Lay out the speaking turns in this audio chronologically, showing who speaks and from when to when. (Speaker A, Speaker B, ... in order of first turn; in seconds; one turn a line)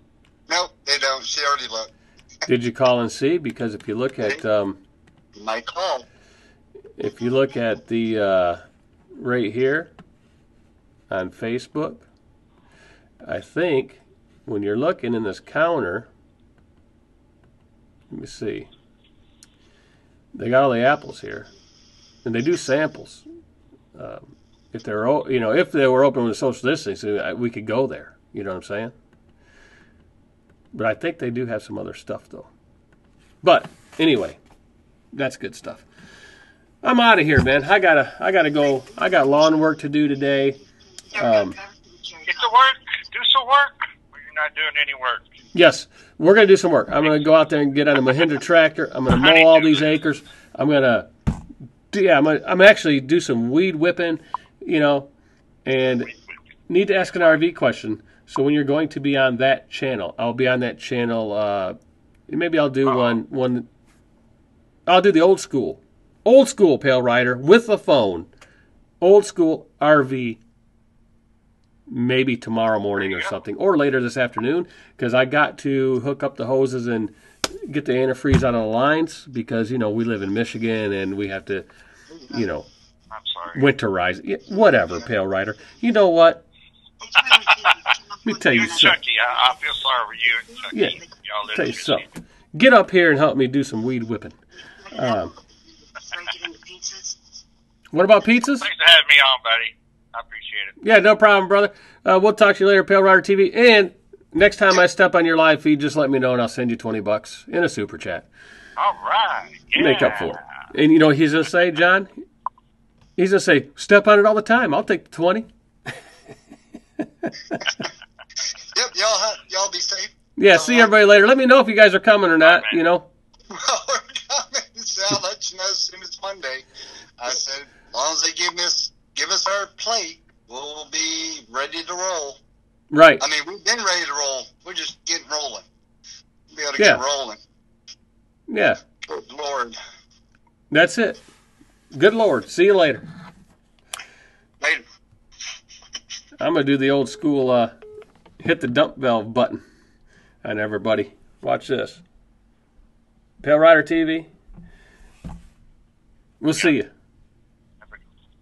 Speaker A: 0.5-1.9
Speaker B: 2.5-4.8
Speaker A: 5.3-6.1
Speaker B: 7.0-8.6
Speaker B: 9.1-9.9
Speaker B: 11.1-12.1
Speaker B: 13.2-16.1
Speaker B: 18.1-18.7
Speaker B: 20.3-21.5
Speaker B: 22.2-23.2
Speaker B: 23.9-28.9
Speaker B: 30.7-32.5
Speaker B: 33.4-34.4
Speaker B: 35.1-35.9
Speaker B: 36.8-40.6
Speaker C: 41.1-42.5
Speaker B: 41.1-41.5
Speaker D: 42.3-45.4
Speaker B: 45.5-51.1
Speaker D: 49.1-49.9
Speaker B: 51.9-55.1
Speaker B: 55.6-56.1
Speaker B: 56.7-61.8
Speaker B: 62.3-63.7
Speaker D: 62.9-63.1
Speaker B: 64.9-68.3
Speaker B: 69.0-70.4
Speaker B: 71.9-77.1
Speaker D: 73.0-73.3
Speaker B: 77.7-81.7
Speaker B: 82.3-82.7
Speaker D: 83.1-83.7
Speaker B: 83.5-86.4
Speaker C: 87.0-88.9
Speaker D: 87.2-87.9
Speaker B: 88.2-89.0
Speaker D: 88.5-92.1
Speaker B: 90.7-91.0
Speaker B: 91.5-94.4
Speaker C: 94.9-95.4
Speaker B: 94.9-95.3
Speaker C: 95.9-97.2
Speaker B: 97.9-98.7
Speaker D: 98.6-100.8
Speaker B: 100.8-108.3
Speaker D: 108.8-110.4
Speaker B: 109.7-112.1
Speaker B: 113.2-115.5
Speaker B: 117.2-117.8
Speaker A: 118.7-120.9
Speaker B: 120.4-123.1
Speaker D: 122.4-122.8
Speaker A: 123.5-126.7
Speaker A: 127.2-132.4
Speaker B: 132.9-133.2
Speaker A: 133.2-135.7
Speaker A: 136.5-137.4
Speaker B: 136.8-137.0
Speaker B: 138.5-138.8
Speaker A: 139.1-139.8
Speaker B: 140.7-141.2
Speaker B: 141.9-143.0
Speaker B: 146.4-147.7
Speaker B: 148.4-149.6
Speaker B: 150.4-152.0
Speaker B: 153.4-154.3
Speaker B: 156.4-156.9